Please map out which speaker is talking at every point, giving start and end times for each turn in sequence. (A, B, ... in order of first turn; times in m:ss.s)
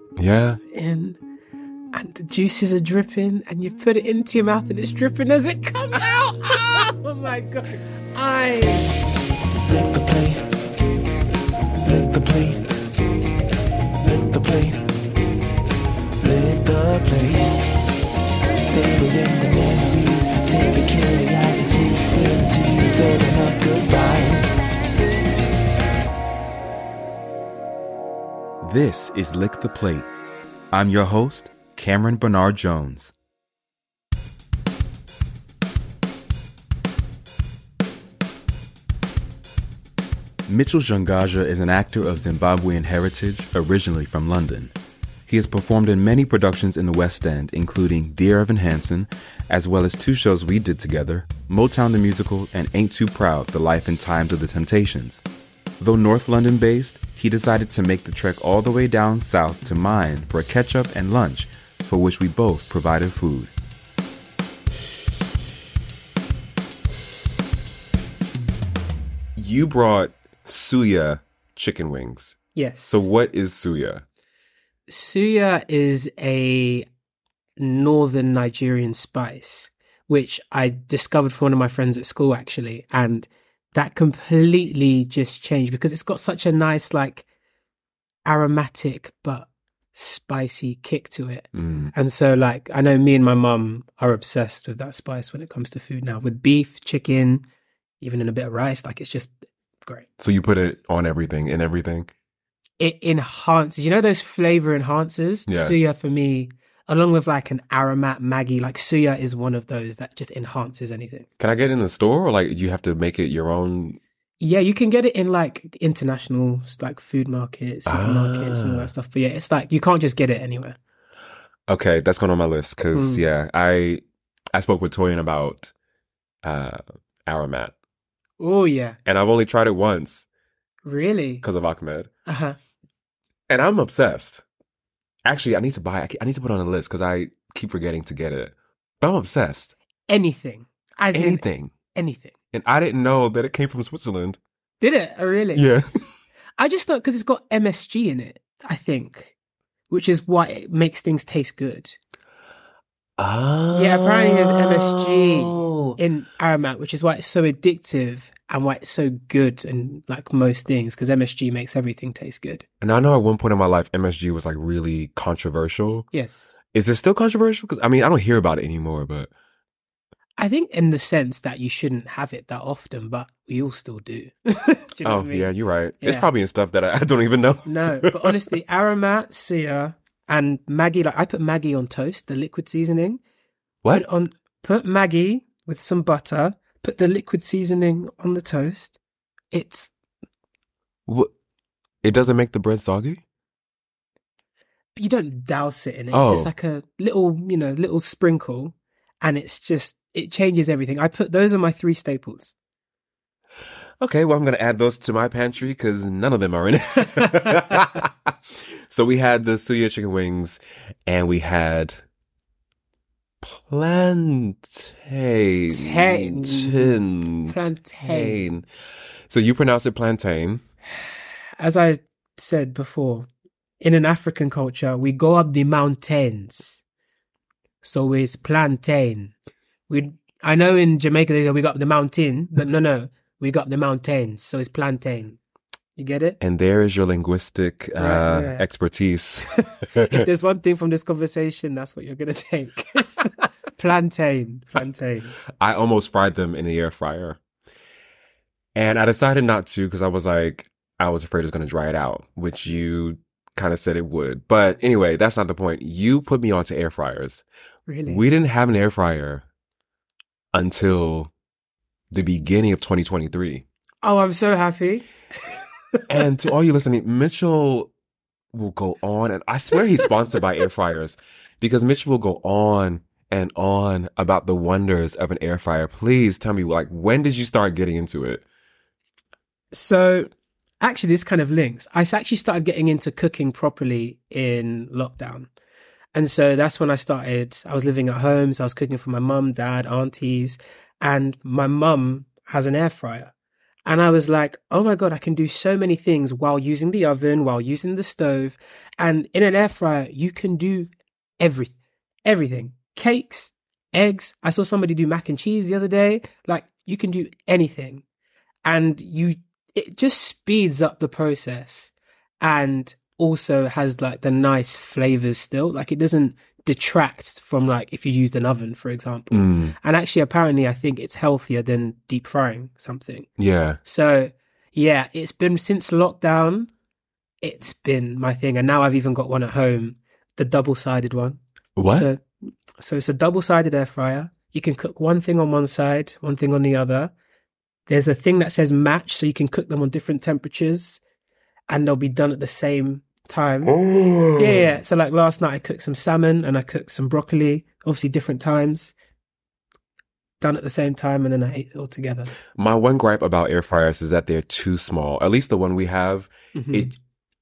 0:00.2-0:00.6 A
0:00.7-0:01.2 B
0:01.9-0:08.9 B
0:09.6-0:10.5 C
0:11.8-0:12.6 C
0:14.0-0:14.9 C
0:16.2-0:17.6 C
0:18.6-0:24.6 C
0:28.6-0:30.1 D
0:30.7-0:33.1 D
0:40.5-0:44.7 D
0:45.3-0:55.2 D
0:55.8-1:03.5 D
1:09.4-1:14.0 A
1:12.5-1:13.1 B
1:14.9-1:16.8 B
1:17.6-1:27.2 B
1:28.2-1:37.4 B
1:31.5-1:31.9 A
1:38.0-1:40.1 B
1:40.2-1:42.1 A
1:42.8-1:51.2 B
1:45.5-1:45.8 A
1:51.4-1:54.0 A
1:54.4-2:00.8 B
1:57.8-1:58.9 A
2:01.7-2:04.0 A
2:02.9-2:03.2 B
2:04.5-2:05.7 A
2:06.4-2:07.7 A
2:08.4-2:09.0 B
2:09.0-2:10.2 A
2:10.8-2:11.4 B
2:11.4-2:12.1 A
2:12.2-2:12.6 B
2:13.5-2:14.4 A
2:15.2-2:19.7 A
2:20.1-2:22.3 B
2:21.1-2:21.7 A
2:22.5-2:24.4 A
2:24.8-2:25.6 B
2:25.5-2:25.9 A
2:26.6-2:29.3 B
2:29.9-2:32.0 B
2:33.2-2:36.0 A
2:33.7-2:42.6 B
2:42.8-2:46.1 A
2:46.1-2:46.5 B
2:46.7-2:49.3 A
2:50.4-2:55.5 B
2:55.0-2:58.4 A
2:56.0-2:56.3 B
2:57.6-3:03.2 B
3:03.9-3:09.0 B
3:09.5-3:09.9 B
3:12.0-3:13.2 A
3:15.0-3:22.5 B
3:16.1-3:16.5 A
3:24.0-3:28.3 A
3:28.8-3:32.0 A
3:33.4-3:38.7 A
3:35.7-3:38.4 B
3:39.3-3:40.6 A
3:41.6-3:43.3 B
3:43.8-3:46.8 B
3:47.8-3:49.3 B
3:49.9-3:55.4 B
3:56.0-3:56.4 B
3:56.4-4:00.2 A
3:58.0-3:58.6 B
4:00.1-4:05.3 B
4:05.6-4:07.4 A
4:08.7-4:17.4 A
4:17.9-4:18.2 B
4:18.1-4:19.4 A
4:20.5-4:21.3 A
4:22.1-4:23.6 A
4:24.0-4:26.2 B
4:26.1-4:27.9 A
4:28.5-4:38.4 A
4:39.7-4:40.3 B
4:40.8-4:45.5 B
4:46.1-4:53.3 B
4:53.8-5:01.7 B
5:02.2-5:08.0 B
5:08.6-5:23.3 B
5:19.3-5:19.7 A
5:23.4-5:23.8 A
5:23.8-5:26.7 B
5:27.4-5:32.2 B
5:31.8-5:32.1 A
5:32.8-5:37.1 B
5:37.9-5:41.0 B
5:41.7-5:43.8 B
5:43.7-5:44.7 A
5:44.4-5:48.9 B
5:50.4-5:52.3 B
5:52.6-5:56.9 A
5:56.5-5:56.9 B